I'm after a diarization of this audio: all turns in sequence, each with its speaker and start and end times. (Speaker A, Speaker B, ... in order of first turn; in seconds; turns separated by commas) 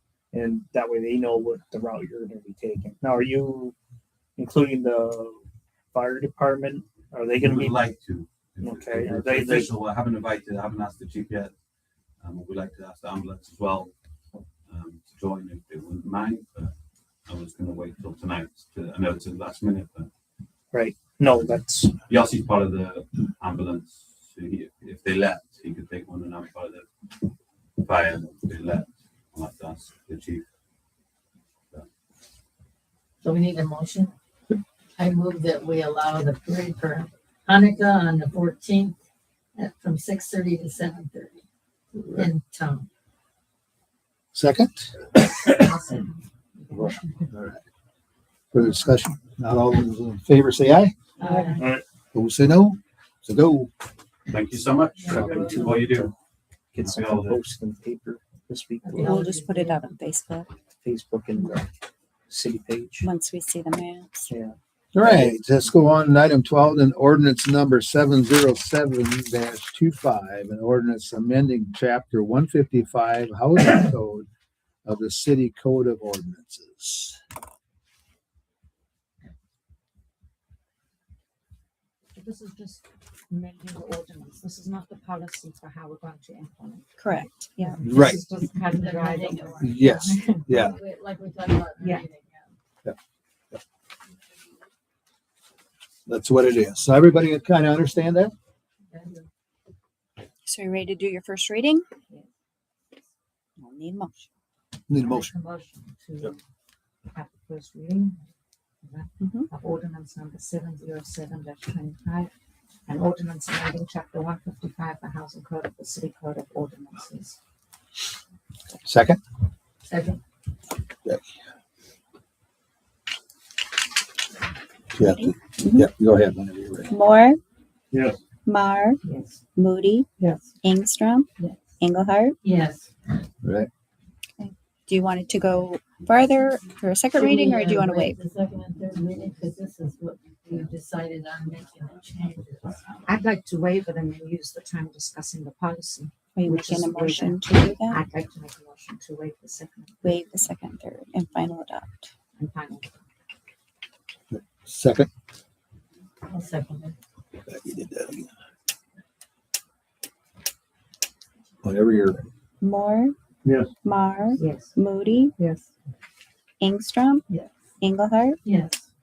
Speaker A: 0.3-3.7, Speaker A: 4.4-5.4, Speaker A: 5.9-7.8, Speaker B: 7.4-11.5, Speaker A: 8.6-9.7, Speaker B: 12.2-13.9, Speaker B: 14.7-16.7, Speaker B: 17.3-20.1, Speaker A: 20.7-22.0, Speaker B: 22.1-26.9, Speaker B: 27.8-30.4, Speaker C: 33.2-34.1, Speaker C: 35.0-39.0, Speaker C: 39.6-41.4, Speaker D: 42.0-42.3, Speaker C: 42.1-42.9, Speaker D: 44.3-44.9, Speaker E: 45.5-47.2, Speaker D: 46.7-47.6, Speaker D: 48.5-50.9, Speaker C: 51.2-51.6, Speaker E: 51.2-51.7, Speaker A: 51.6-51.8, Speaker D: 52.1-53.7, Speaker B: 54.3-56.1, Speaker D: 55.1-55.5, Speaker A: 55.2-56.1, Speaker A: 56.7-59.2, Speaker B: 56.8-57.4, Speaker C: 59.0-59.8, Speaker F: 59.1-60.5, Speaker A: 60.8-61.7, Speaker A: 62.3-63.1, Speaker F: 63.0-64.3, Speaker A: 64.3-65.5, Speaker D: 64.9-74.3, Speaker D: 74.8-77.2, Speaker E: 82.2-90.8, Speaker F: 87.0-87.8, Speaker D: 87.8-88.2, Speaker C: 88.7-89.8, Speaker D: 89.6-90.8, Speaker C: 90.7-92.5, Speaker E: 91.8-92.1, Speaker D: 96.1-98.3, Speaker C: 98.9-99.3, Speaker F: 100.5-101.8, Speaker F: 103.6-104.3, Speaker D: 104.9-105.3, Speaker E: 105.0-106.4, Speaker E: 107.1-108.2, Speaker E: 108.8-112.3, Speaker F: 109.2-109.5, Speaker E: 112.9-117.4, Speaker D: 118.8-119.2, Speaker C: 119.9-120.2, Speaker D: 124.9-127.0, Speaker F: 125.0-125.9, Speaker F: 126.9-127.4, Speaker F: 128.5-129.0, Speaker C: 129.1-129.3, Speaker F: 129.6-130.1, Speaker F: 130.6-131.3, Speaker F: 131.8-132.4, Speaker C: 132.4-132.9, Speaker D: 133.4-133.7, Speaker F: 134.4-138.2, Speaker C: 137.2-143.0, Speaker E: 143.0-150.3, Speaker F: 146.3-148.0, Speaker F: 150.0-152.1, Speaker E: 152.3-152.9, Speaker D: 154.3-155.1, Speaker C: 156.3-156.9, Speaker D: 157.5-158.3, Speaker D: 161.6-162.2, Speaker F: 162.6-163.2, Speaker F: 163.8-165.3, Speaker C: 164.4-164.7, Speaker F: 166.6-167.2, Speaker F: 167.8-168.4, Speaker C: 168.4-168.8